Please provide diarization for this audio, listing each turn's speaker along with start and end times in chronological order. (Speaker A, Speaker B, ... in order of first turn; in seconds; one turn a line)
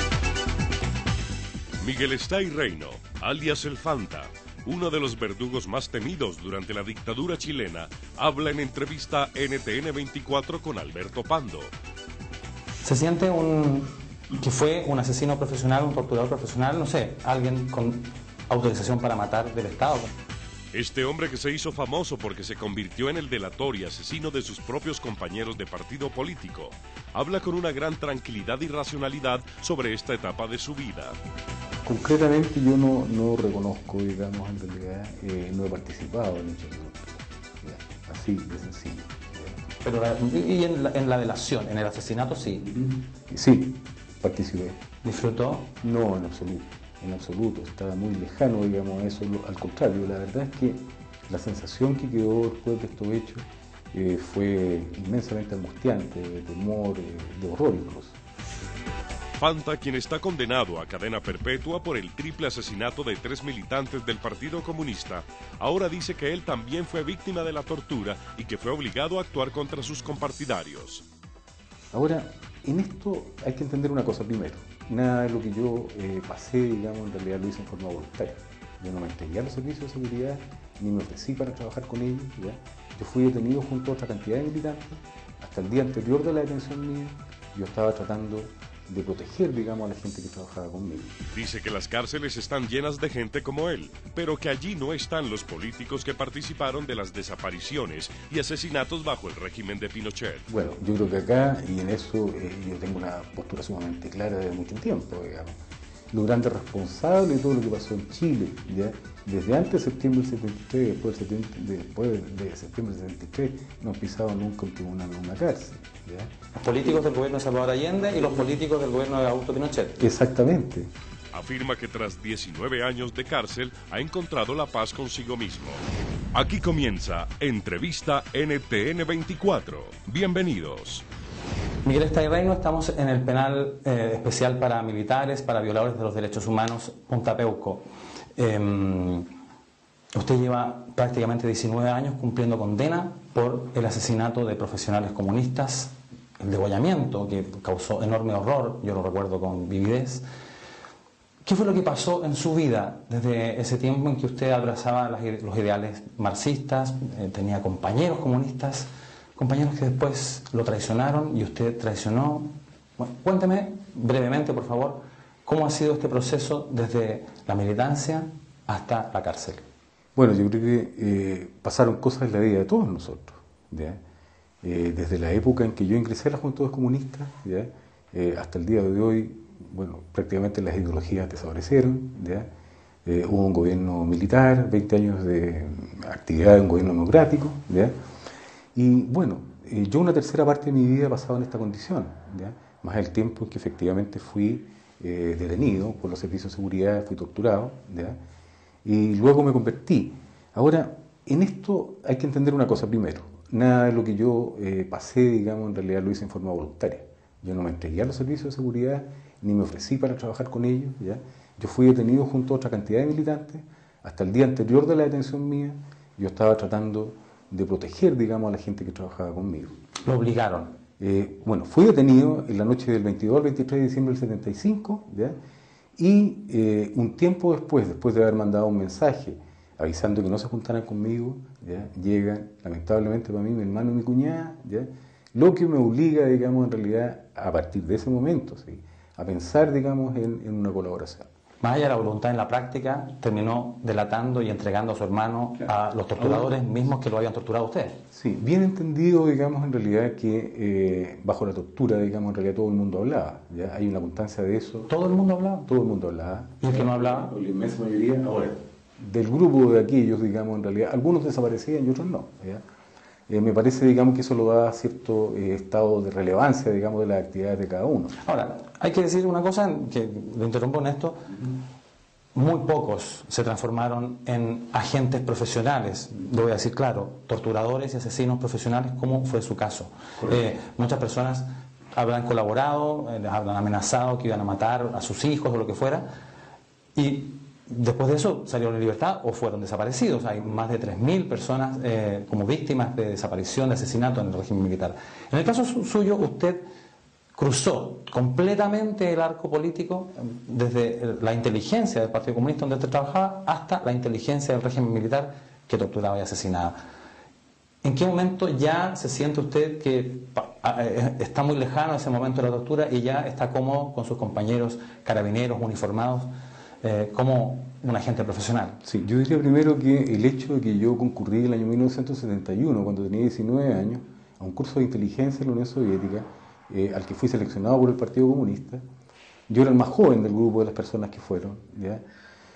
Speaker A: 1.8-11.7
Speaker B: 12.8-20.1
Speaker A: 20.7-31.2
Speaker C: 31.8-39.6
Speaker B: 39.8-42.7
Speaker C: 42.9-44.8
Speaker B: 45.0-45.7
Speaker C: 45.8-58.2
Speaker A: 59.4-71.0
Speaker C: 71.9-91.2
Speaker A: 91.3-100.5
Speaker C: 100.5-105.6
Speaker C: 106.1-116.3
Speaker B: 116.6-120.0
Speaker C: 120.0-120.9
Speaker A: 121.3-125.8
Speaker A: 126.3-131.1
Speaker B: 131.8-137.8
Speaker B: 138.4-139.3
Speaker B: 140.1-150.2
Speaker B: 151.4-169.6
Speaker C: 170.2-174.0
Speaker C: 174.6-182.5
Speaker C: 183.1-188.0
Speaker C: 188.8-198.2
Speaker C: 198.8-219.8
Speaker B: 220.1-220.7
Speaker C: 221.0-225.4
Speaker C: 226.0-241.3
Speaker B: 241.6-248.0
Speaker C: 246.2-246.6
Speaker C: 248.1-254.9
Speaker B: 254.9-255.7
Speaker C: 255.7-262.6
Speaker B: 256.6-257.3
Speaker C: 263.3-268.1
Speaker B: 268.2-271.4
Speaker B: 272.3-286.1
Speaker B: 286.9-296.6
Speaker B: 297.3-306.8
Speaker B: 307.8-316.3
Speaker B: 316.8-318.8
Speaker C: 318.8-328.8
Speaker C: 329.5-332.0